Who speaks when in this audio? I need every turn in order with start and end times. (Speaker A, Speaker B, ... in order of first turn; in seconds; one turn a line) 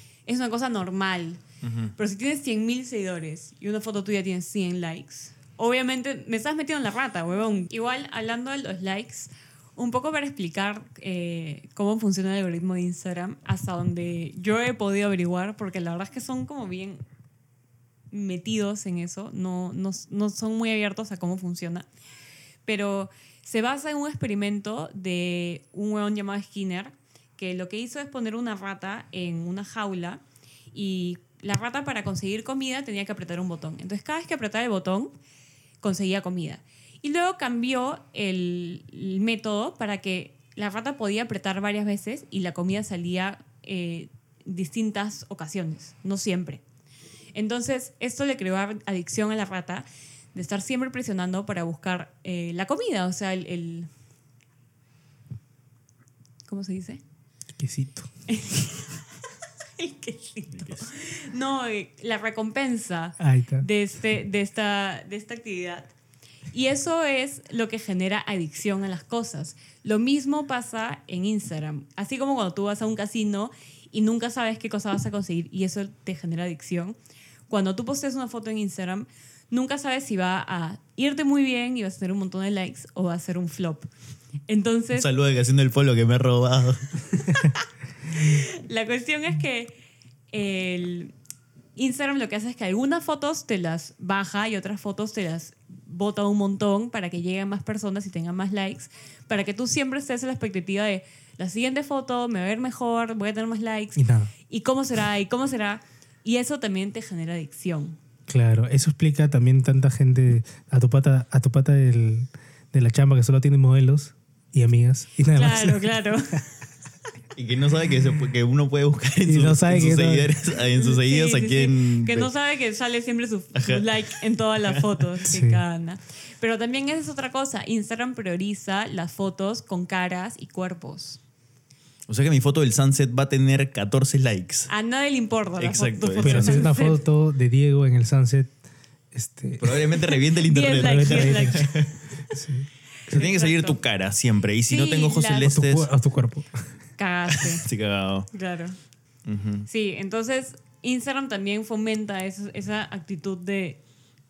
Speaker A: 0.2-1.4
Speaker B: 1.6-1.9
Speaker A: 2.0-17.0
Speaker A: 18.1-21.9
Speaker A: 22.6-30.2
Speaker A: 30.7-35.1
Speaker A: 35.8-46.6
Speaker A: 47.3-53.9
Speaker A: 56.5-57.0
Speaker C: 57.6-58.1
Speaker A: 58.3-58.9
Speaker A: 59.8-65.9
Speaker B: 60.6-60.8
Speaker C: 63.2-63.7
Speaker A: 66.5-77.0
Speaker A: 77.5-83.9
Speaker A: 84.5-85.1
Speaker B: 84.9-86.8
Speaker A: 87.3-89.7
Speaker A: 90.3-91.1
Speaker A: 91.8-108.0
Speaker C: 104.0-104.3
Speaker C: 108.3-116.1
Speaker A: 115.3-116.4
Speaker B: 117.3-122.3
Speaker C: 119.2-120.3
Speaker A: 120.8-131.2
Speaker B: 123.5-123.9
Speaker C: 125.2-125.6
Speaker B: 132.1-134.7
Speaker A: 134.7-137.0
Speaker B: 135.6-136.7
Speaker C: 136.2-138.5
Speaker C: 139.1-139.8
Speaker B: 139.6-141.9
Speaker A: 140.3-141.7
Speaker C: 140.7-141.7
Speaker C: 142.3-142.7
Speaker A: 143.1-143.8
Speaker B: 143.1-145.9
Speaker A: 144.7-145.5
Speaker C: 145.4-146.6
Speaker A: 147.0-147.6
Speaker B: 147.3-148.3
Speaker A: 148.3-148.8
Speaker B: 149.2-149.7
Speaker A: 149.7-153.8